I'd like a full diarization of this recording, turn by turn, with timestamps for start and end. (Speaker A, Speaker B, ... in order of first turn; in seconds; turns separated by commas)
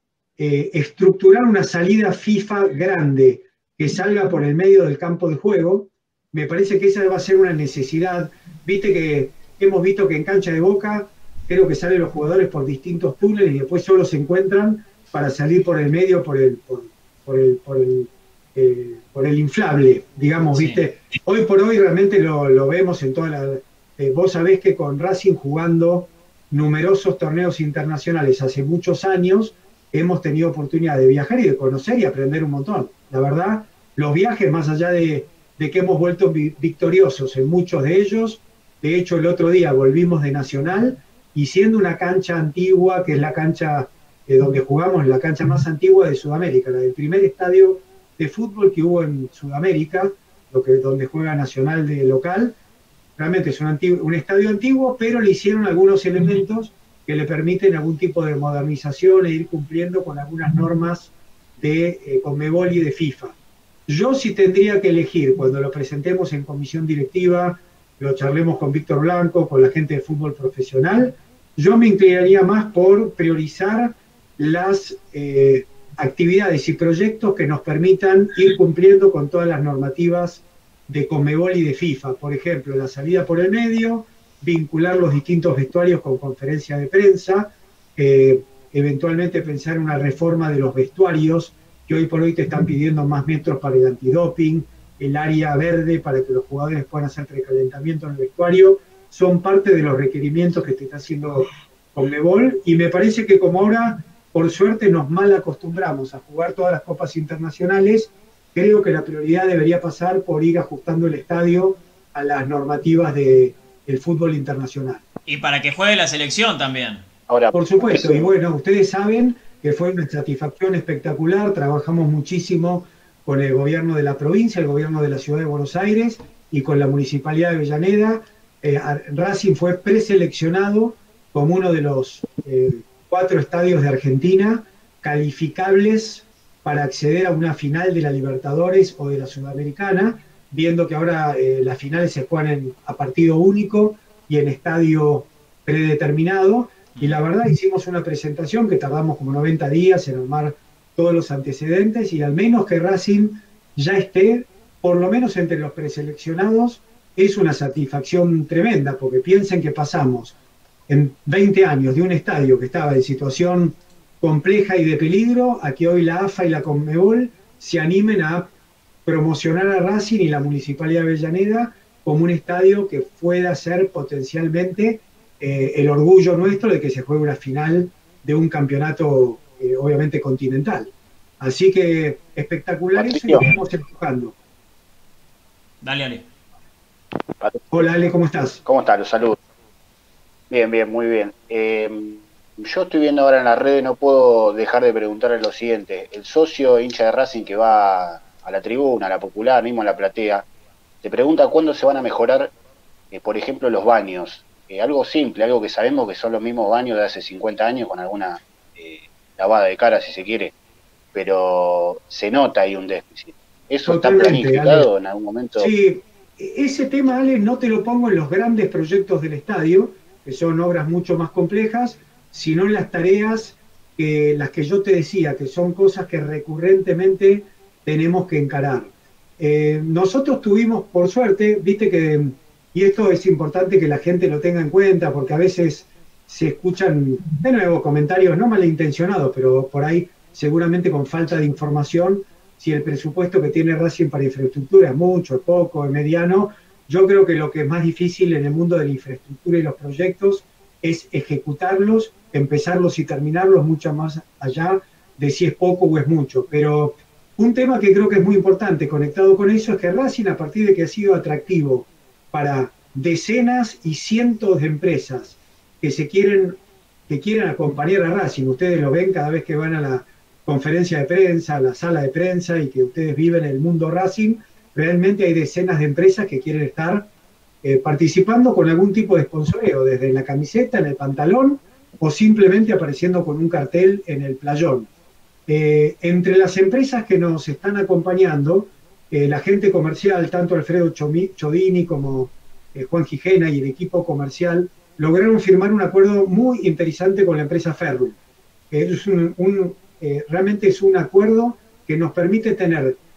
Speaker A: 0.4-52.6, Speaker B: 20.5-20.8, Speaker A: 53.2-63.4, Speaker A: 63.9-115.0, Speaker B: 115.3-117.1, Speaker C: 117.3-118.3, Speaker A: 117.5-160.3, Speaker B: 146.9-147.2, Speaker A: 160.9-168.5, Speaker A: 169.1-184.3, Speaker C: 182.9-183.6, Speaker B: 185.8-186.3, Speaker C: 187.4-188.0, Speaker A: 187.7-188.6, Speaker C: 188.6-189.4, Speaker C: 190.5-200.5, Speaker C: 201.0-202.5, Speaker C: 203.1-210.5, Speaker C: 211.1-215.7, Speaker A: 213.9-214.9, Speaker A: 215.6-277.1, Speaker A: 277.6-284.9, Speaker A: 285.5-298.2, Speaker A: 298.7-303.0